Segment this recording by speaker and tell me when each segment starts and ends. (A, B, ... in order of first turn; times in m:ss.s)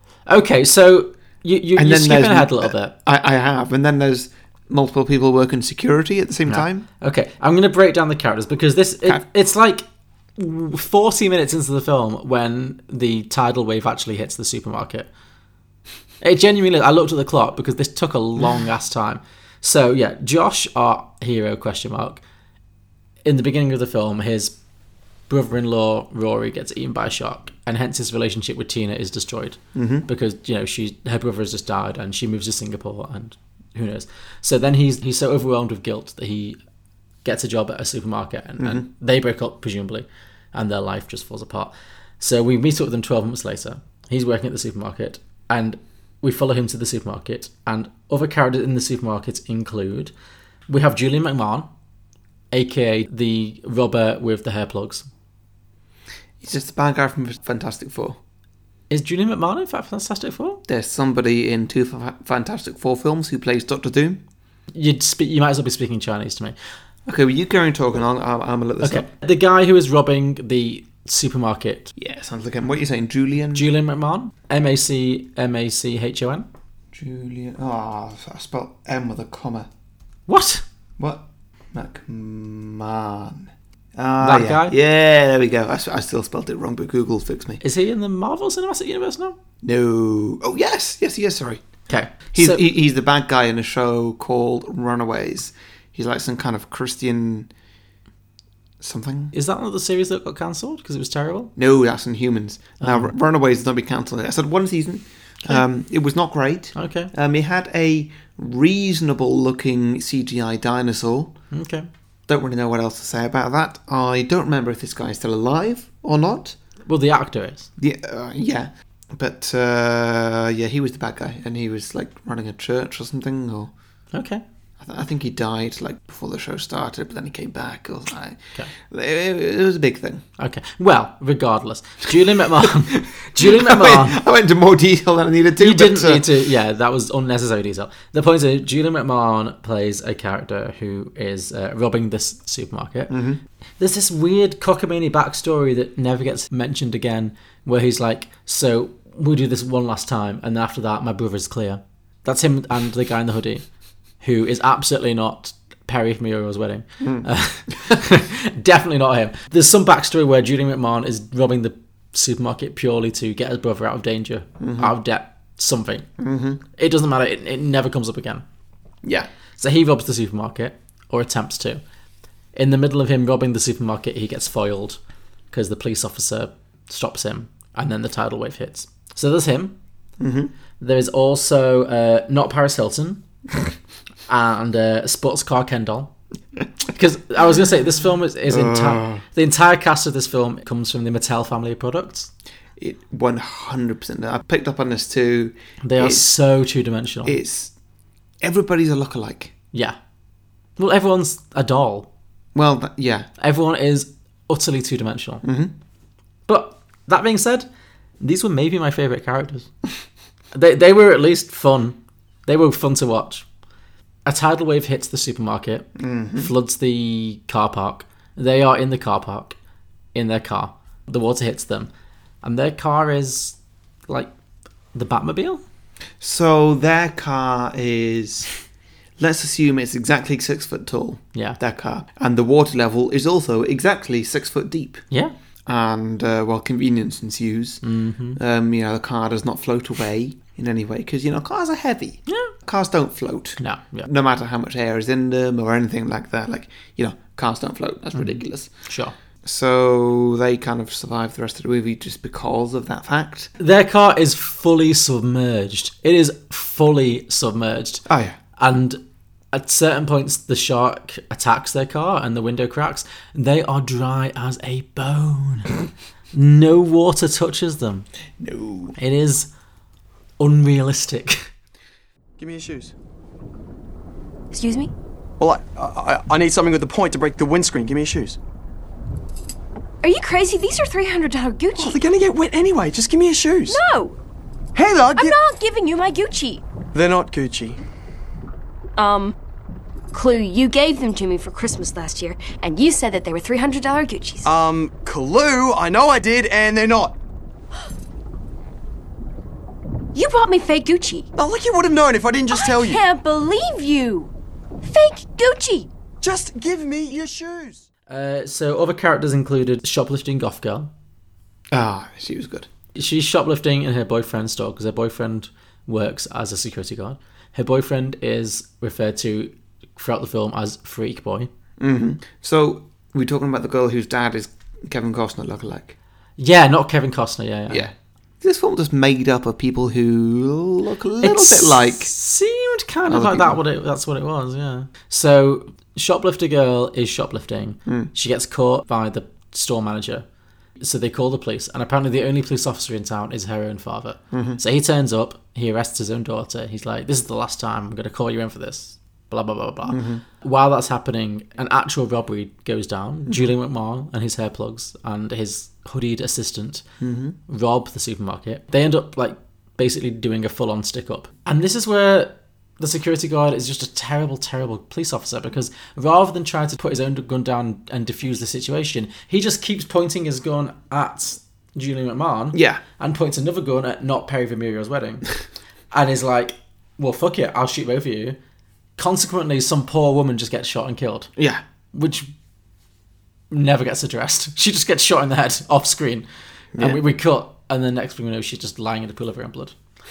0:00.3-0:02.9 A
0:01.8-0:06.8 B
0:06.5-0:09.8 A
0:10.4-0:15.1 A
0:16.2-0:22.2 A
0:23.2-0:24.5 A
0:25.3-0:36.6 A
0:29.7-0:30.0 B
0:37.2-0:50.1 A
0:38.6-0:38.8 B
0:50.7-0:51.7 A
0:52.5-0:55.0 A
0:56.4-0:58.2 B
0:58.9-1:00.6 A
1:00.7-1:04.2 B
1:04.7-1:06.5 A
1:07.0-1:09.1 B
1:08.8-1:11.9 A
1:12.0-1:13.6 B
1:13.5-1:16.5 A
1:16.9-1:19.7 B
1:20.3-1:20.6 A
1:21.0-1:27.6 B
1:24.2-1:24.7 A
1:27.6-1:29.4 A
1:29.6-1:31.7 B
1:31.9-1:32.6 A
1:32.2-1:37.5 B
1:38.8-1:39.3 B
1:39.3-1:41.5 A
1:41.6-1:51.3 B
1:42.8-1:43.1 A
1:46.8-1:47.1 A
1:51.5-1:51.9 A
1:52.3-1:56.6 B
1:56.8-1:57.7 A
1:57.8-2:03.7 B
2:04.1-2:04.4 A
2:04.8-2:10.2 B
2:10.4-2:14.2 A
2:13.4-2:16.2 B
2:15.6-2:23.1 A
2:23.1-2:23.4 B
2:23.8-2:33.6 A
2:34.2-2:46.1 A
2:37.0-2:37.2 B
2:44.6-2:44.9 B
2:46.2-2:46.6 B
2:46.8-2:48.4 A
2:49.6-2:51.8 A
2:52.5-2:55.0 A
2:55.5-2:59.7 A
3:00.2-3:00.5 B
3:00.8-3:03.2 A
3:04.3-3:06.1 A
3:06.9-3:12.3 A
3:08.5-3:09.2 B
3:12.8-3:16.3 B
3:15.8-3:17.4 A
3:17.2-3:17.7 B
3:18.4-3:19.5 B
3:20.8-3:22.1 A
3:22.5-3:23.3 B
3:23.4-3:25.4 A
3:25.4-3:25.7 B
3:26.5-3:27.7 A
3:28.2-3:29.7 A
3:30.5-3:33.4 A
3:34.2-3:39.5 A
3:36.0-3:36.5 B
3:40.1-3:41.9 A
3:42.4-3:43.6 A
3:44.9-3:45.6 A
3:46.2-3:48.5 B
3:49.2-3:55.0 B
3:55.7-3:57.8 B
3:57.8-3:58.4 A
3:58.3-4:08.7 B
4:02.3-4:02.5 A
4:03.6-4:04.1 A
4:08.2-4:09.1 A
4:09.4-4:13.5 B
4:13.6-4:18.0 A
4:18.1-4:18.4 B
4:18.6-4:19.0 A
4:19.5-4:25.8 A
4:26.3-4:28.1 A
4:28.4-4:29.0 B
4:29.0-4:29.5 A
4:30.4-4:31.4 A
4:32.4-4:32.9 C
4:34.5-4:34.9 D
4:35.4-4:38.4 C
4:40.0-4:42.0 D
4:41.8-4:43.8 C
4:43.7-4:44.2 D
4:44.7-4:45.4 C
4:45.1-4:46.6 D
4:46.9-4:47.8 C
4:49.0-4:49.3 D
4:50.1-4:54.5 D
4:54.4-4:57.2 C
5:00.1-5:01.3 D
5:01.4-5:03.0 C
5:02.5-5:04.3 D
5:04.8-5:05.9 D
5:06.2-5:07.8 C
5:08.1-5:10.9 A
5:11.7-5:12.7 B
5:12.9-5:21.5 A
5:21.8-5:25.9 B
5:26.4-5:27.9 A
5:27.7-5:32.1 B
5:31.2-5:40.2 A
5:33.1-5:33.6 B
5:40.8-5:56.8 A
5:44.3-5:44.6 B
5:49.9-5:50.2 B
5:57.0-5:57.4 B
5:57.5-6:15.4 A
6:12.5-6:12.8 B
6:15.9-6:18.4 A
6:19.0-6:21.3 A
6:21.9-6:22.3 A
6:23.5-6:26.2 A
6:26.7-6:27.0 B
6:26.8-6:29.7 A